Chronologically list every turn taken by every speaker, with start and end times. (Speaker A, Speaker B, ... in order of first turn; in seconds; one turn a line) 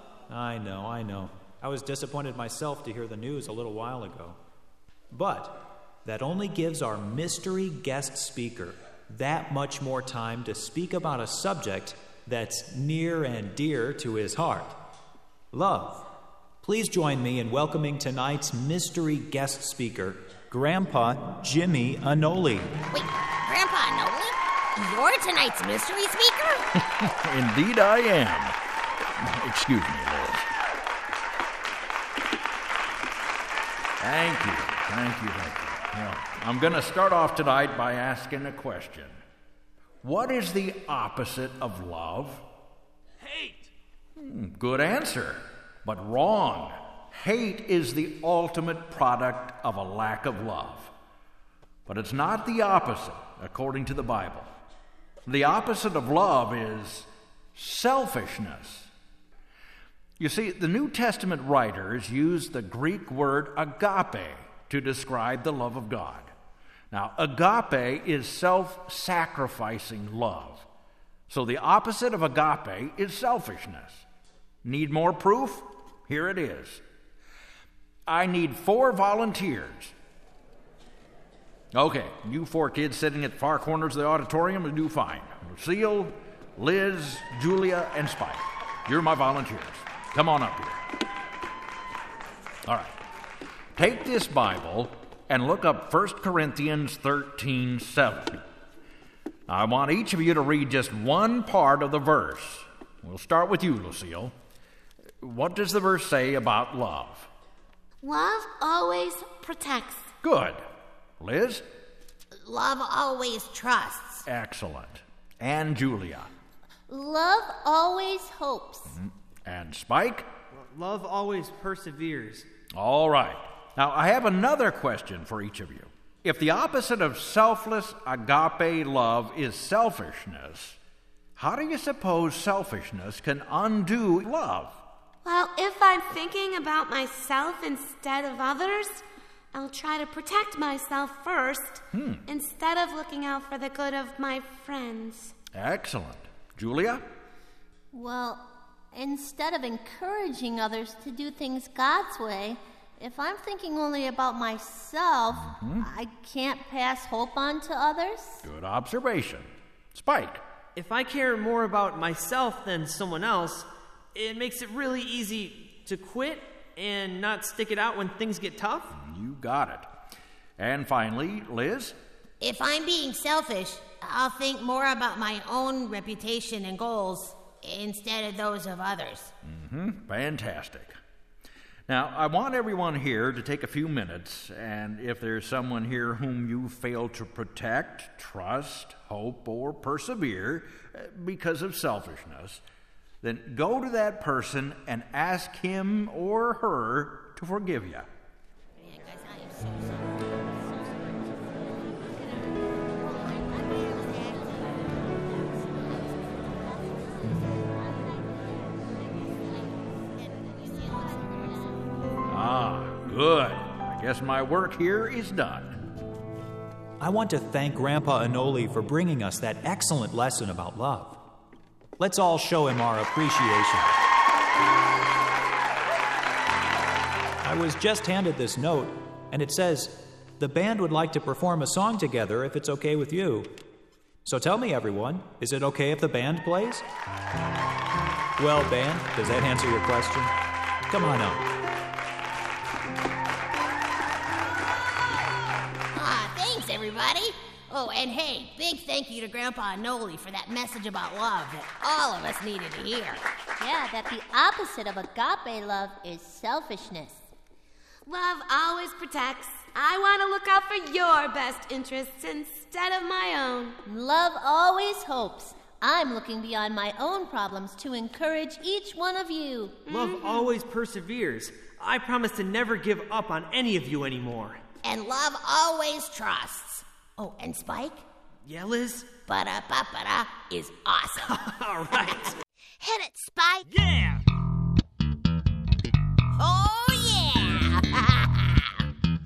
Speaker A: 0.3-4.4
Speaker A: 5.1-14.8
Speaker A: 15.5-16.0
Speaker A: 16.6-22.8
Speaker B: 22.9-26.7
Speaker C: 26.8-28.6
Speaker C: 29.2-30.5
Speaker C: 34.0-39.2
Speaker C: 40.0-42.4
Speaker D: 43.2-43.7
Speaker C: 44.1-50.9
Speaker C: 51.9-54.5
Speaker C: 55.2-58.9
Speaker C: 60.2-66.3
Speaker C: 66.9-70.7
Speaker C: 71.3-74.0
Speaker C: 74.6-76.8
Speaker C: 78.1-79.9
Speaker C: 81.7-90.8
Speaker C: 92.7-93.0
Speaker C: 93.8-98.4
Speaker C: 99.5-104.3
Speaker C: 105.2-107.3
Speaker E: 108.0-110.1
Speaker C: 110.2-110.6
Speaker C: 111.2-111.6
Speaker B: 112.4-114.2
Speaker C: 114.2-116.3
Speaker F: 116.9-119.0
Speaker C: 118.9-120.3
Speaker D: 120.5-122.5
Speaker C: 122.7-130.8
Speaker C: 131.4-134.8
Speaker E: 135.2-145.3
Speaker C: 141.9-142.2
Speaker C: 145.5-147.0
Speaker F: 147.9-158.4
Speaker C: 155.3-155.8
Speaker C: 158.4-160.4
Speaker D: 160.8-168.9
Speaker C: 168.9-169.9
Speaker C: 170.6-171.9
Speaker B: 172.4-179.3
Speaker C: 179.4-180.9
Speaker C: 181.9-192.6
Speaker C: 193.2-198.1
Speaker B: 198.8-200.0
Speaker B: 203.0-204.9
Speaker B: 210.2-211.7
Speaker C: 212.3-215.8
Speaker A: 217.0-221.2
Speaker A: 222.0-223.9
Speaker A: 227.4-233.6
Speaker A: 234.2-236.8
Speaker A: 238.4-240.3
Speaker A: 240.9-241.4
Speaker B: 245.9-253.2
Speaker F: 253.6-257.2
Speaker E: 258.1-263.8
Speaker F: 263.8-269.8
Speaker E: 269.9-270.5
Speaker D: 269.9-274.6
Speaker B: 274.8-278.0
Speaker D: 278.4-279.2
Speaker B: 279.1-281.4
Speaker D: 281.3-282.4
Speaker B: 282.8-283.7
Speaker D: 283.7-284.2
Speaker B: 286.4-288.9